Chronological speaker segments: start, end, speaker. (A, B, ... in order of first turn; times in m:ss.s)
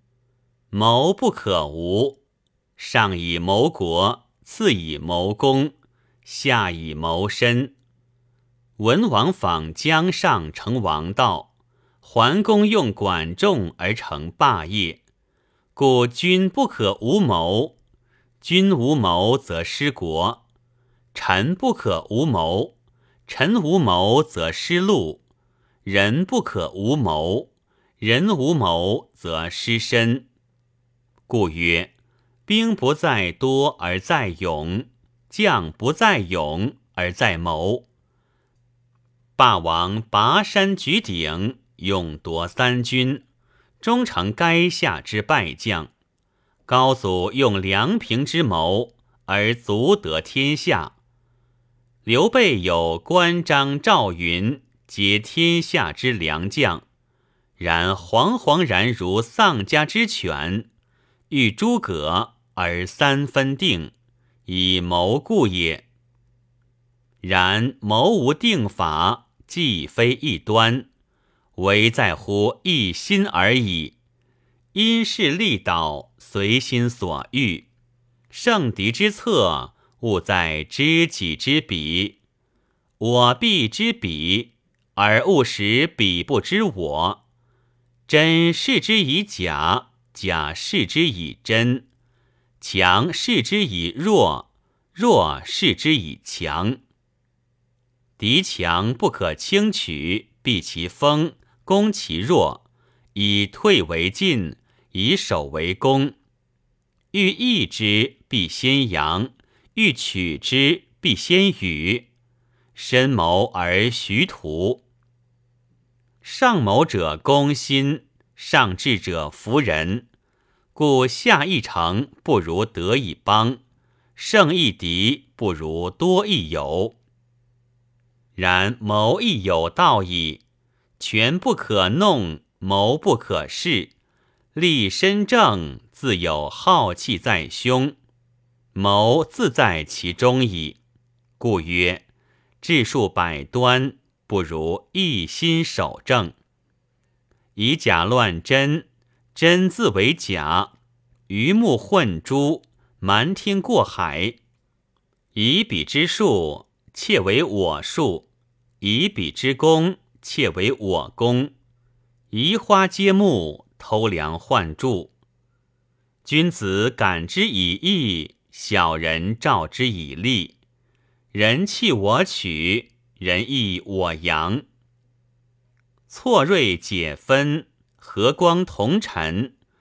0:00.7-0:02.2 A
0:02.8-0:05.7 A
0:06.2-0:07.7 A
0:08.8-0:11.5 A
0:12.0-0:15.0 A
0:15.7-0:17.8 A
0:18.4-0:20.4 A
0:21.1-0:22.8 A
0:23.3-0:25.2 A
0:25.8-0:30.3 A
0:31.3-0:31.9 A
0:32.4-0:37.9 A
0:39.4-0:43.2 A
0:43.8-0:45.9 A
0:46.7-0:51.0 A
0:52.0-0:56.8 A
0:57.6-1:00.7 A
1:01.3-1:03.9 A
1:04.5-1:05.8 A
1:07.2-1:10.9 A
1:11.6-1:14.0 A
1:14.7-1:17.7 A
1:18.3-1:22.2 A
1:23.0-1:27.2 A
1:28.1-1:31.8 A
1:32.6-1:36.8 A
1:38.2-1:42.6 A
1:43.1-1:46.2 A
1:47.1-1:52.1 A
1:52.7-1:54.8 A
1:56.2-2:00.1 A
2:00.7-2:03.6 A
2:04.2-2:07.0 A
2:08.4-2:10.4 A
2:11.0-2:13.9 A
2:14.5-2:18.0 A
2:18.7-2:20.8 A
2:21.4-2:22.0 A
2:22.6-2:26.3 A
2:27.6-2:30.7 A
2:31.3-2:34.4 A
2:35.3-2:38.3 A
2:38.8-2:41.5 A
2:42.3-2:45.1 A
2:46.2-2:50.6 A
2:51.3-2:54.6 A
2:56.1-2:59.5 A